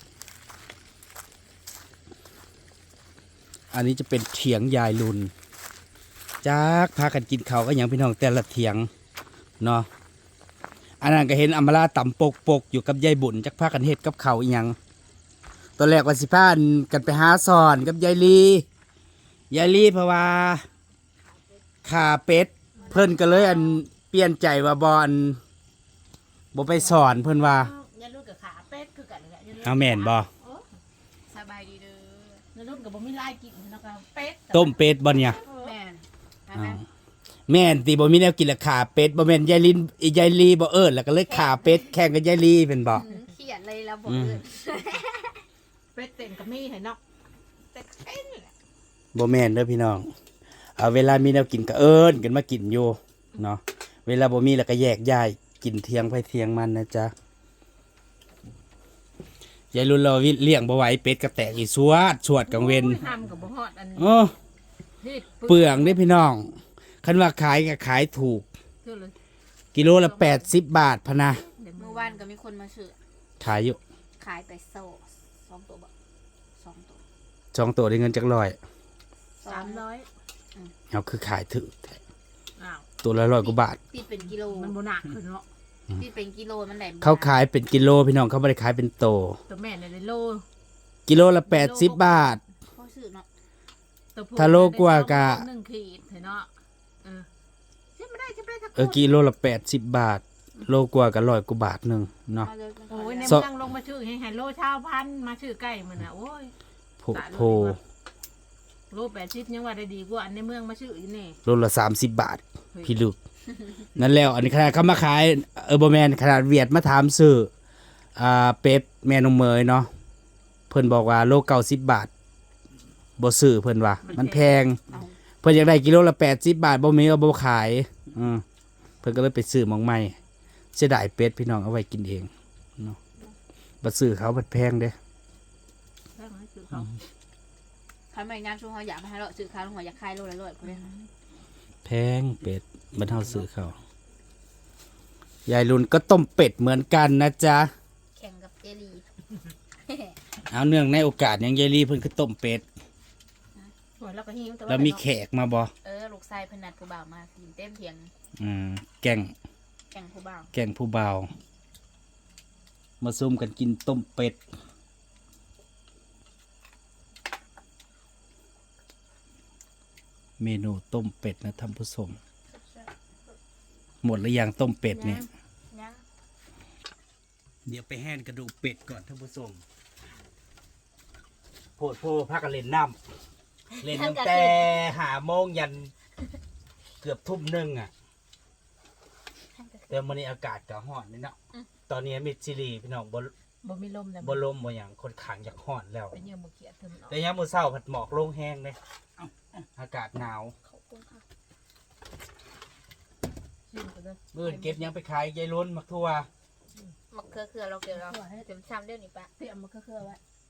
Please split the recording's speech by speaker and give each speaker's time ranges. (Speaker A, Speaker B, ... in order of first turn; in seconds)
Speaker A: 3.7-5.3, 6.4-8.9, 9.6-9.9, 11.0-14.8, 15.8-18.7, 19.5-20.6, 21.9-25.4, 26.5-27.7, 29.6-30.3, 34.5-35.4, 36.5-36.8, 37.5-43.1, 44.1-44.4, 49.1-50.1, 50.8-57.1, 59.7-63.0, 64.0-64.3, 65.5-68.5, 69.7-71.5, 73.4-73.8, 77.5-78.6, 80.9-82.0, 83.0-83.8, 87.0-89.4, 91.1-92.4, 94.4-95.5, 98.8-102.5, 107.0-107.8, 111.5-113.2, 114.0-117.5, 118.2-119.9, 120.7-122.1, 123.2-124.8, 125.4-128.4, 129.0-130.2, 130.7-133.0, 133.8-135.0, 141.8-143.8, 145.5-147.7, 150.5-152.7, 154.7-155.7, 158.4-159.3, 160.5-161.3, 163.0-164.4, 170.4-172.2, 174.0-175.3, 177.7-179.6, 181.8-183.0, 183.8-185.9, 187.0-187.9, 189.9-191.4, 191.9-193.3, 194.2-196.2, 197.1-198.8, 199.8-200.6, 204.3-206.3
Speaker B: 22.8-23.5, 26.8-30.6, 32.5-35.7, 45.9-47.0, 62.5-64.1, 65.0-66.0, 68.8-69.2, 69.8-70.5, 71.6-72.2, 79.4-80.1, 82.6-82.8, 84.2-85.5, 89.5-90.5, 91.5-92.3, 94.1-96.5, 97.0-97.3, 98.0-99.0, 102.9-106.5, 107.1-107.8, 108.9-111.4, 124.1-124.5, 136.2-136.9, 140.8-141.0, 154.0-155.0, 174.9-175.3, 193.6-194.4, 196.1-197.2, 203.7-204.9, 207.9-208.5, 209.4-210.2
Speaker C: 31.3-32.4, 35.5-36.8, 41.3-42.0, 42.9-45.4, 47.7-48.5, 71.8-73.0, 74.2-75.9, 76.6-77.0, 79.4-79.8, 83.3-84.8, 86.0-87.4, 92.7-93.3, 102.4-103.5, 138.1-141.0, 148.1-149.0, 149.9-150.2, 155.8-158.1, 159.9-160.5, 172.5-172.9, 175.7-176.0, 183.7-184.9, 189.5-190.0, 200.7-201.2, 207.1-209.3